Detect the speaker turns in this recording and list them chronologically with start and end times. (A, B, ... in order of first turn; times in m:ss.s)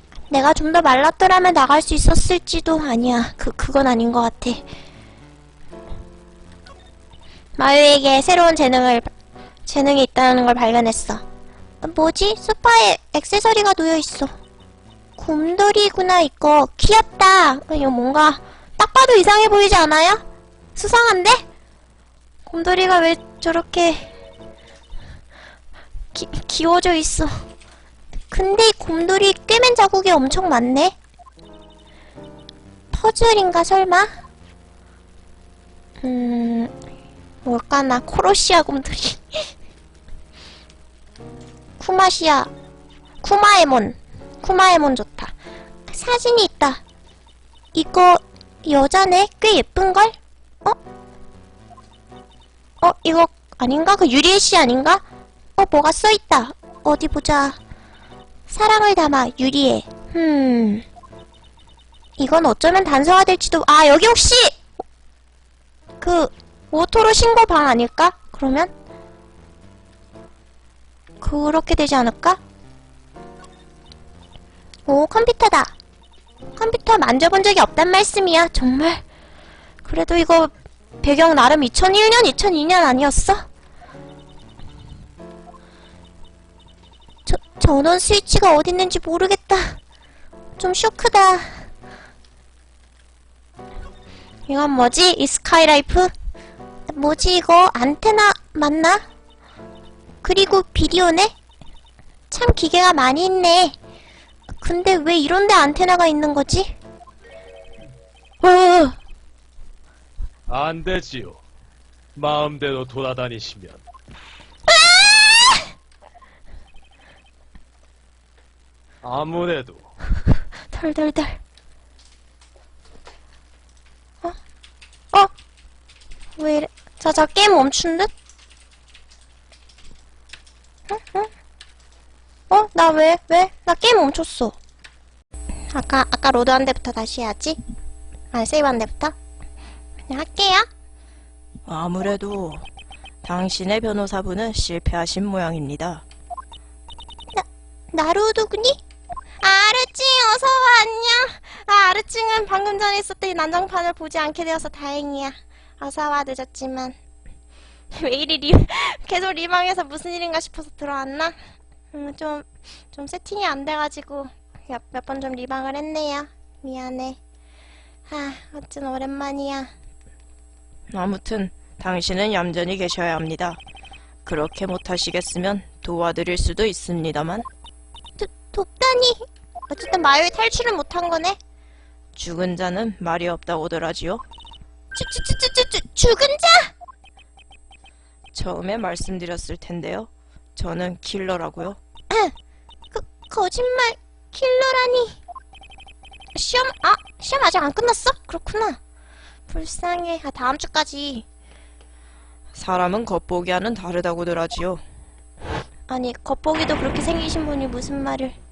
0:00.3-0:04.6 A
0:07.6-0:09.1 A
0:09.6-0:11.2 A
0:11.8-0:14.3 A
0:15.2-0:20.2 A
0:20.8-0:21.4 A
0:22.4-0:24.1 A
0:26.1-0:27.4 A
0:28.3-0:31.0 A
0:32.9-0:34.1 A
0:36.0-0:36.7 A
0:37.4-0:39.5 A
0:41.8-0:42.5 A
0:43.2-0:45.3 A
0:45.9-0:46.8 A
0:47.7-0:50.8 A
0:52.8-0:55.0 A
0:55.6-0:57.6 A
0:58.5-1:00.8 A
1:02.2-1:04.7 A
1:06.0-1:08.7 A
1:11.2-1:12.4 A
1:14.9-1:15.7 A
1:16.6-1:19.0 A
1:19.8-1:23.4 A
1:27.2-1:29.8 A
1:30.6-1:31.6 A
1:34.5-1:36.1 A
1:36.9-1:39.0 A
1:40.2-1:41.3 A
1:42.3-1:43.8 A
1:44.6-1:46.7 A
1:48.4-1:48.9 A
1:50.5-1:51.4 B
1:52.1-1:53.8 B
1:54.7-1:55.6 A
1:59.0-1:59.9 B
2:00.7-2:01.4 A
2:06.4-2:08.1 A
2:10.9-2:11.3 A
2:12.5-2:14.6 A
2:15.7-2:17.6 A
2:18.3-2:19.1 A
2:20.1-2:20.7 A
2:21.7-2:22.6 C
2:23.2-2:26.0 C
2:27.3-2:28.8 A
2:29.4-2:37.0 A
2:37.9-2:41.3 A
2:41.9-2:47.2 A
2:48.1-2:49.7 A
2:50.9-2:53.6 C
2:54.2-2:57.4 C
2:58.2-3:01.4 A
3:03.0-3:04.2 C
3:04.9-3:06.7 A
3:09.6-3:11.8 C
3:12.9-3:15.2 A
3:16.3-3:18.8 A
3:19.5-3:21.2 A
3:22.6-3:24.8 C
3:25.9-3:28.4 A